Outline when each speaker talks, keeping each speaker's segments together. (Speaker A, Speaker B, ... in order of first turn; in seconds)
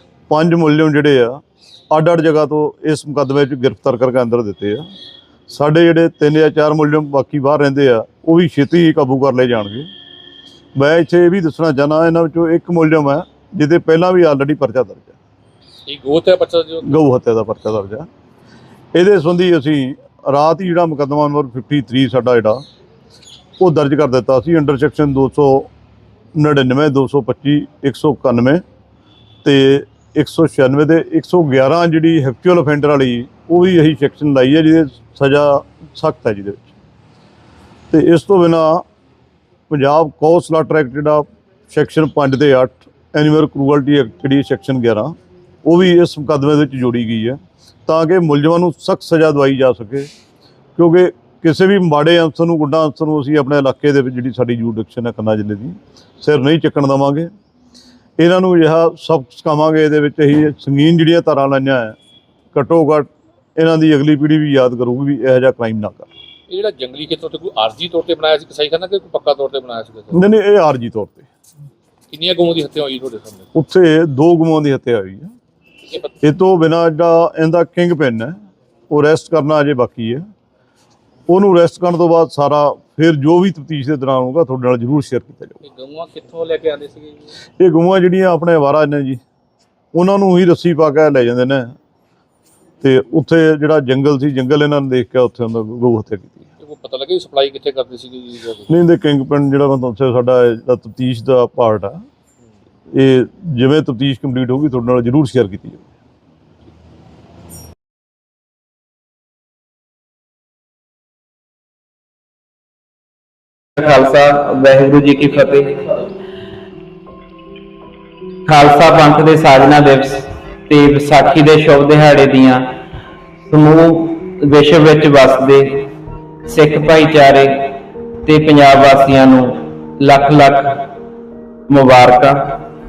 Speaker A: 0.3-4.9, 5.5-9.9, 10.8-15.2, 16.8-18.1, 18.9-22.6, 23.6-25.7, 26.4-28.6, 29.4-36.7, 37.9-38.8, 39.7-50.1, 50.8-57.3, 58.2-62.0, 62.5-66.1, 70.1-71.3, 73.5-75.3, 76.2-80.2, 81.3-85.6, 87.6-89.2, 89.9-91.7, 92.8-96.5, 98.7-102.0, 102.9-105.9
Speaker B: 15.9-17.0, 66.5-70.2, 72.1-73.5, 85.6-87.3, 96.6-98.8
Speaker C: 113.8-116.1, 118.5-122.8, 123.5-125.9, 126.4-130.8, 131.7-132.6